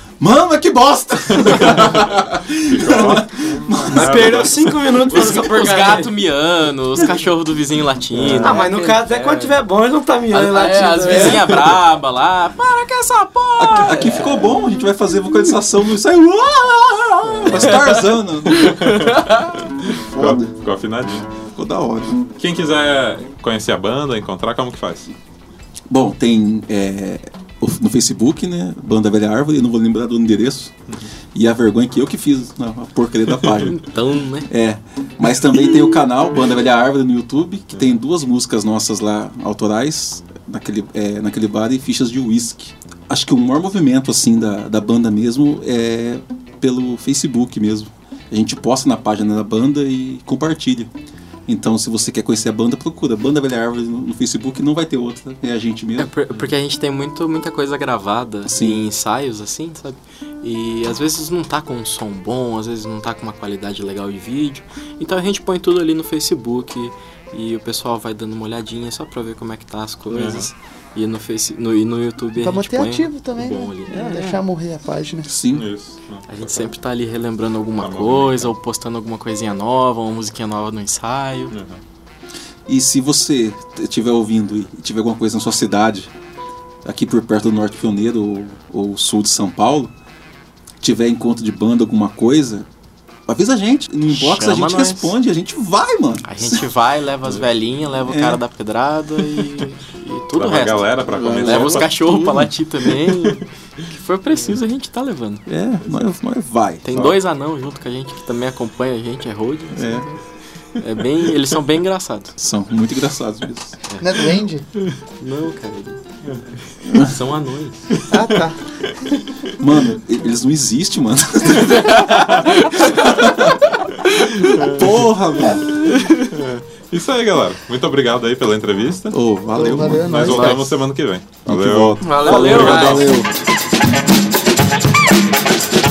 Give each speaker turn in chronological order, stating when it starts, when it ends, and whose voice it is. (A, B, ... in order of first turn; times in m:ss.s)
0:00.2-0:04.5 A
0:01.4-0:01.7 B
0:02.6-0:05.1 B
0:03.9-0:06.1 C
0:05.1-0:09.6 D
0:08.2-0:08.6 B
0:08.4-0:11.7 C
0:10.3-0:14.5 D
0:13.6-0:19.0 A
0:18.6-0:19.3 D
0:18.6-0:21.3 B
0:19.9-0:20.5 A
0:21.5-0:22.2 A
0:22.4-0:25.1 B
0:25.9-0:30.7 A
0:31.3-0:33.8 A
0:33.6-0:34.5 D
0:34.5-0:50.9 A
0:51.5-0:56.1 A
0:56.0-1:14.3 D
0:58.5-0:58.8 A
1:10.1-1:10.5 B
1:12.4-1:15.3 E
1:13.9-1:14.4 C
1:15.3-1:15.7 A
1:15.5-1:16.7 B
1:16.3-1:21.5 D
1:17.8-1:18.5 B
1:21.5-1:21.8 B
1:22.7-1:26.1 A
1:26.8-1:29.9 A
1:30.8-1:32.7 A
1:33.3-1:36.7 A
1:34.1-1:35.2 D
1:36.2-1:45.4 D
1:38.1-1:38.4 A
1:40.4-1:42.4 B
1:41.1-1:42.5 A
1:45.5-1:47.2 A
1:46.8-1:50.2 D
1:49.7-1:50.1 A
1:50.8-1:52.4 D
1:52.4-1:53.8 A
1:54.0-1:54.7 E
1:55.2-1:56.0 D
1:56.9-1:57.2 A
1:56.9-1:58.0 D
1:58.1-1:59.2 E
1:59.5-2:03.7 A
2:01.7-2:02.8 B
2:01.9-2:02.6 D
2:04.1-2:04.9 B
2:04.5-2:05.7 A
2:05.8-2:06.3 D
2:06.2-2:13.1 B
2:09.1-2:10.8 A
2:09.5-2:10.7 E
2:11.5-2:13.3 A
2:12.0-2:13.1 C